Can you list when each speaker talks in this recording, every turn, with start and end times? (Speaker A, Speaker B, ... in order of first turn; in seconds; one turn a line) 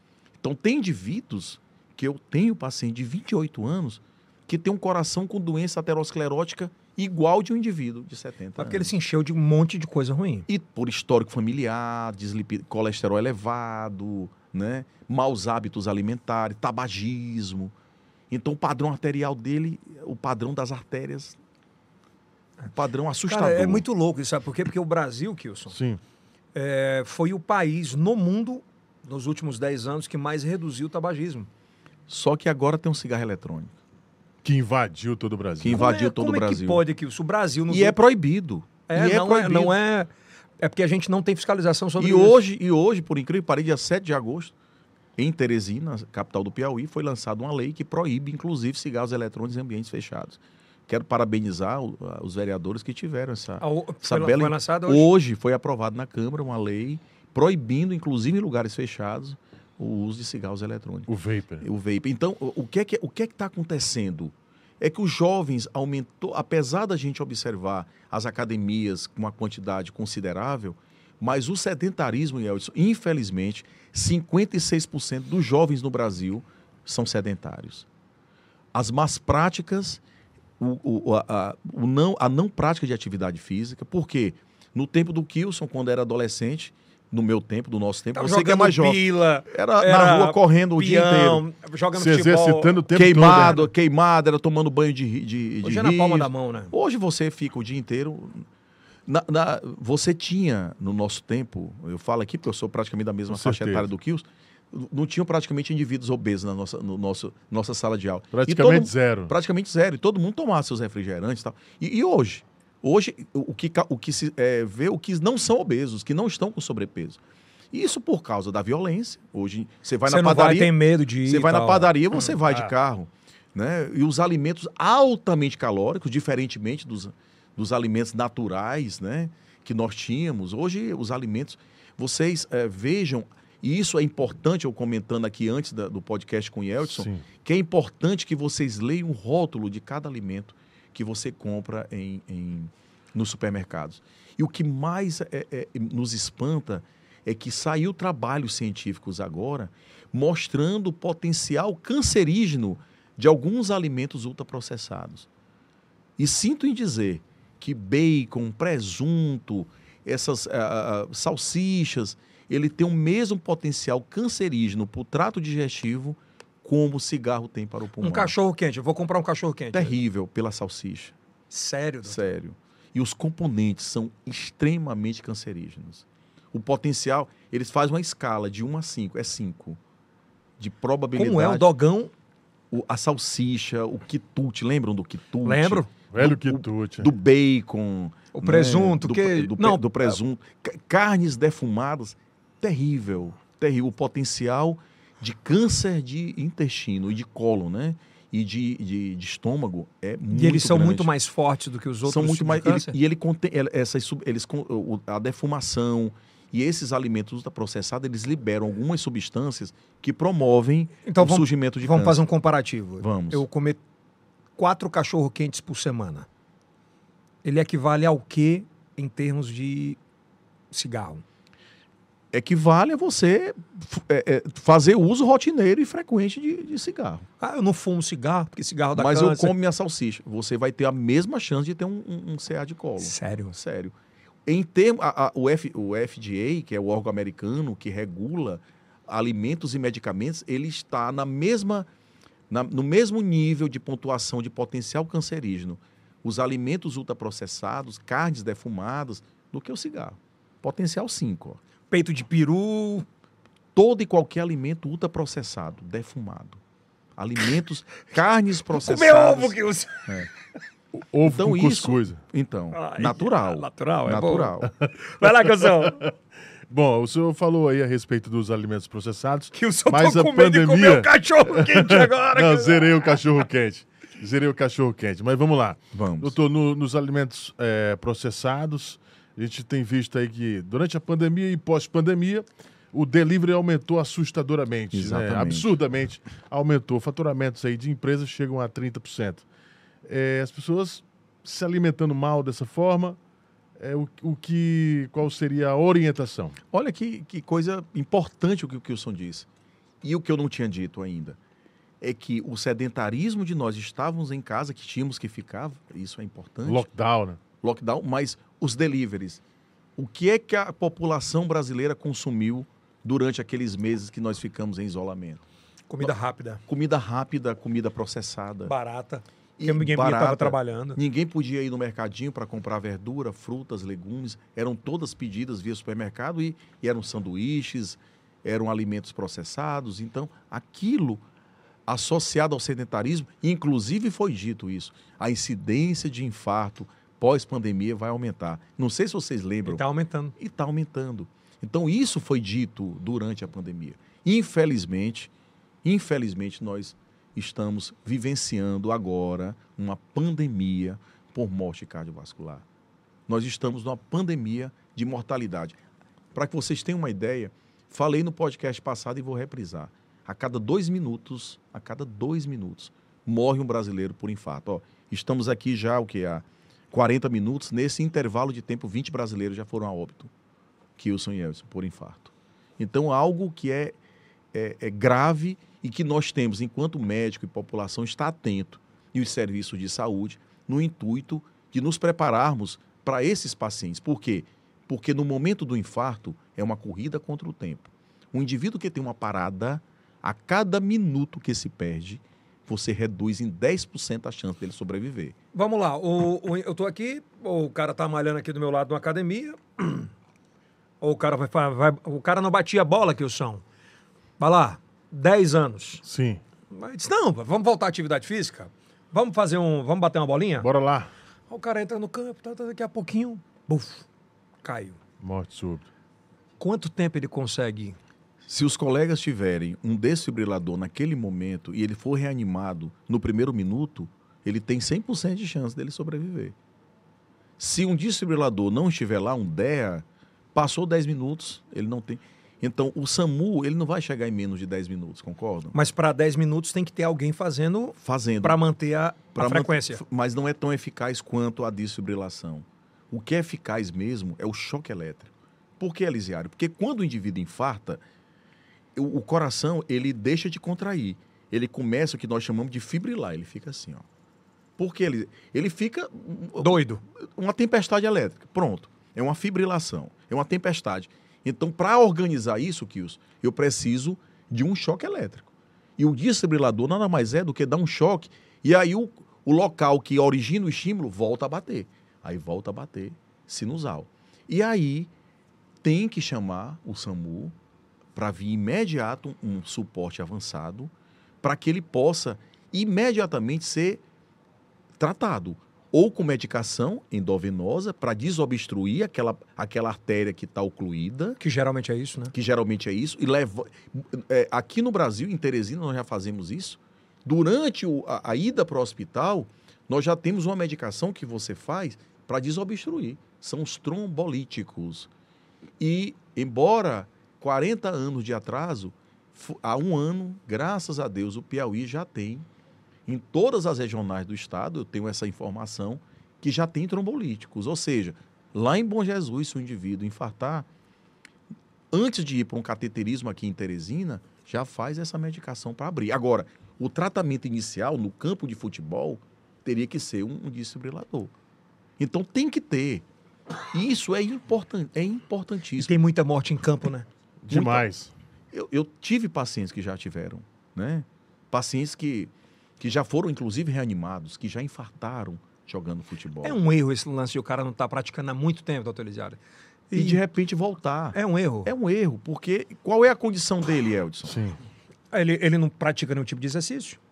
Speaker A: 0.4-8.9
Speaker B: 8.6-10.5
Speaker A: 10.5-17.7
Speaker A: 18.3-21.4
Speaker A: 22.7-23.9
Speaker B: 23.3-25.8
Speaker C: 25.7-26.0
Speaker B: 26.6-31.5
Speaker A: 32.1-33.7
Speaker C: 34.4-35.8
Speaker A: 35.6-36.8
Speaker B: 35.7-38.0
Speaker A: 37.7-39.8
Speaker B: 38.9-40.1
Speaker B: 40.6-42.4
Speaker A: 42.0-44.5
Speaker A: 45.2-61.1
Speaker B: 53.6-55.1
Speaker C: 61.1-61.6
Speaker A: 61.6-77.9
Speaker A: 78.7-80.0
Speaker A: 80.6-91.4
Speaker B: 88.1-93.7
Speaker C: 92.0-93.6
Speaker A: 92.9-98.5
Speaker B: 95.6-96.7
Speaker A: 99.1-117.2
Speaker C: 103.3-103.9
Speaker C: 108.3-109.3
Speaker A: 117.7-155.3
Speaker B: 120.1-122.7
Speaker C: 136.9-137.2
Speaker A: 156.2-168.3
Speaker B: 168.0-169.9
Speaker A: 169.7-171.2
Speaker B: 171.5-172.3
Speaker A: 172.1-179.8
Speaker A: 180.6-181.7
Speaker B: 181.2-182.1
Speaker A: 182.7-201.1
Speaker B: 185.4-185.9
Speaker C: 186.1-187.1
Speaker B: 188.3-190.2
Speaker B: 200.3-203.0
Speaker A: 202.1-212.2
Speaker B: 211.1-213.8
Speaker A: 213.0-213.4
Speaker B: 214.6-216.3
Speaker B: 217.4-220.0
Speaker B: 220.7-221.2
Speaker A: 222.3-227.3
Speaker B: 227.4-229.5
Speaker A: 228.9-233.9
Speaker B: 233.0-233.6
Speaker A: 234.5-241.9
Speaker A: 242.5-251.6
Speaker B: 251.9-253.1
Speaker A: 253.8-256.6
Speaker A: 257.2-259.6
Speaker B: 258.7-260.3
Speaker C: 261.1-262.2
Speaker A: 261.2-264.7
Speaker B: 262.7-266.0
Speaker C: 265.6-266.1
Speaker C: 266.7-289.5
Speaker B: 269.5-273.2
Speaker A: 275.9-276.3
Speaker A: 284.9-285.7
Speaker C: 290.1-293.2
Speaker C: 293.8-296.6
Speaker A: 296.7-299.5
Speaker A: 300.0-301.4
Speaker A: 302.0-306.9
Speaker C: 306.7-307.4
Speaker A: 307.6-309.4
Speaker A: 310.0-315.4
Speaker B: 315.9-316.6
Speaker A: 316.7-318.7
Speaker B: 318.6-321.0
Speaker A: 319.6-331.2
Speaker A: 331.9-339.8
Speaker B: 339.6-340.3
Speaker A: 340.4-345.3
Speaker A: 345.8-352.6
Speaker A: 353.3-355.8
Speaker A: 356.3-370.3
Speaker A: 371.0-373.9
Speaker A: 374.5-395.4
Speaker B: 395.5-400.1
Speaker B: 401.0-403.6
Speaker B: 404.4-406.0
Speaker C: 406.0-406.4
Speaker B: 406.7-410.7
Speaker C: 410.6-411.1
Speaker B: 411.5-414.1
Speaker B: 414.6-415.0
Speaker C: 415.2-415.9
Speaker B: 416.6-418.0
Speaker A: 418.5-426.6
Speaker A: 427.6-435.8
Speaker B: 435.7-440.0
Speaker A: 438.0-438.6
Speaker A: 439.4-448.0
Speaker A: 448.9-454.1
Speaker A: 454.8-475.1
Speaker B: 456.6-457.0
Speaker A: 475.8-477.6
Speaker A: 478.1-484.0
Speaker A: 485.0-491.4
Speaker B: 491.4-492.3
Speaker A: 492.3-505.1
Speaker A: 505.8-512.5
Speaker A: 513.1-520.7
Speaker A: 521.9-531.3
Speaker A: 532.0-533.0
Speaker A: 533.7-535.9
Speaker B: 535.8-537.1
Speaker C: 537.4-538.1
Speaker A: 537.5-537.9
Speaker A: 538.5-546.6
Speaker B: 546.4-549.4
Speaker B: 549.9-550.2
Speaker A: 549.9-554.4
Speaker B: 551.1-551.7
Speaker C: 554.3-554.6
Speaker B: 555.1-557.0